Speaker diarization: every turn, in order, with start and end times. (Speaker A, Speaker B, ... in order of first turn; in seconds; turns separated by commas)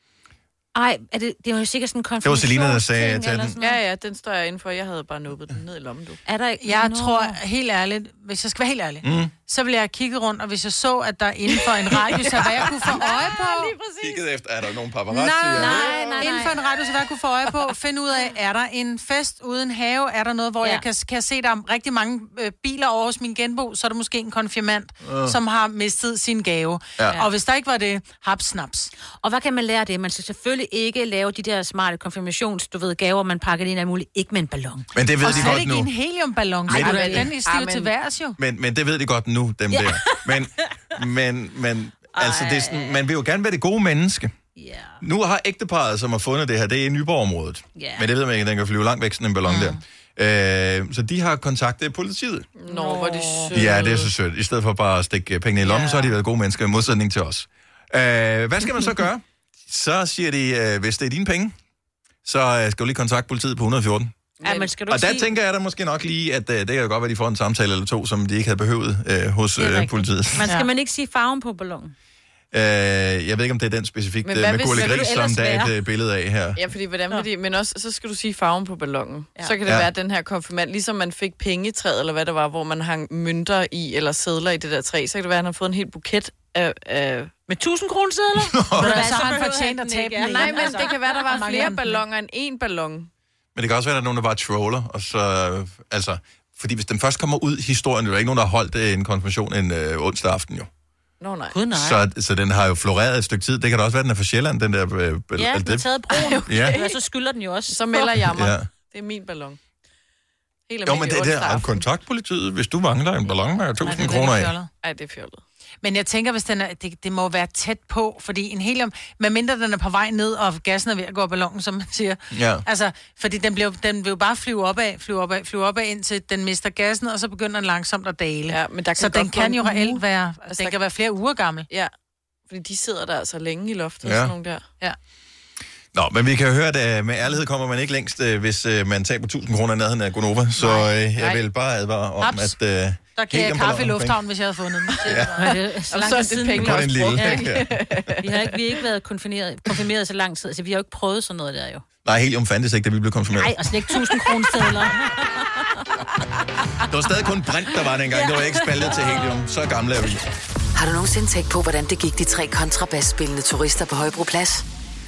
Speaker A: 0.8-3.8, Speaker B: 2.2-3.6, Speaker C: 3.6-6.2, Speaker A: 6.3-7.4, Speaker D: 6.6-13.8, Speaker B: 9.0-9.3, Speaker C: 12.0-14.2, Speaker B: 14.0-16.3, Speaker D: 15.1-28.9, Speaker A: 15.5-16.6, Speaker B: 25.0-25.4, Speaker A: 29.2-35.5, Speaker B: 34.9-35.9, Speaker D: 35.2-38.4, Speaker A: 36.7-37.3, Speaker B: 36.7-37.1, Speaker C: 36.7-37.9, Speaker B: 38.4-44.3, Speaker A: 39.7-40.7, Speaker A: 42.1-43.0, Speaker A: 44.6-45.0, Speaker B: 45.0-52.5, Speaker A: 47.8-48.1, Speaker D: 49.5-49.8, Speaker C: 52.6-54.1, Speaker A: 52.7-53.6, Speaker B: 53.5-61.5, Speaker C: 55.6-56.1, Speaker B: 62.2-64.1, Speaker C: 64.4-64.7, Speaker A: 64.4-65.3, Speaker B: 64.9-70.5, Speaker A: 69.6-71.9, Speaker B: 72.5-76.6, Speaker C: 74.2-75.0, Speaker A: 74.7-75.7, Speaker C: 76.6-87.3, Speaker A: 87.5-91.8, Speaker B: 88.4-89.1, Speaker D: 88.8-92.0, Speaker C: 90.2-93.1, Speaker B: 93.5-100.7, Speaker C: 101.2-101.6, Speaker A: 101.5-102.0, Speaker B: 101.7-105.9, Speaker A: 105.3-108.2, Speaker C: 106.1-107.0, Speaker B: 106.5-106.8, Speaker C: 107.7-109.6, Speaker B: 108.2-108.7, Speaker C: 110.7-111.8, Speaker B: 110.8-114.5, Speaker D: 113.8-114.7, Speaker C: 114.8-115.4, Speaker D: 115.8-131.7, Speaker B: 122.3-122.6, Speaker C: 128.5-130.8, Speaker C: 132.5-134.6, Speaker B: 134.0-134.3, Speaker B: 135.9-144.2, Speaker D: 140.6-140.9, Speaker D: 142.2-142.6, Speaker D: 143.1-145.5, Speaker B: 145.0-145.4, Speaker A: 145.4-147.5, Speaker C: 145.9-148.5, Speaker B: 146.5-147.8, Speaker A: 148.2-151.8, Speaker B: 152.1-154.1, Speaker A: 153.4-155.8, Speaker B: 156.9-160.3, Speaker A: 158.1-159.3, Speaker E: 160.8-164.6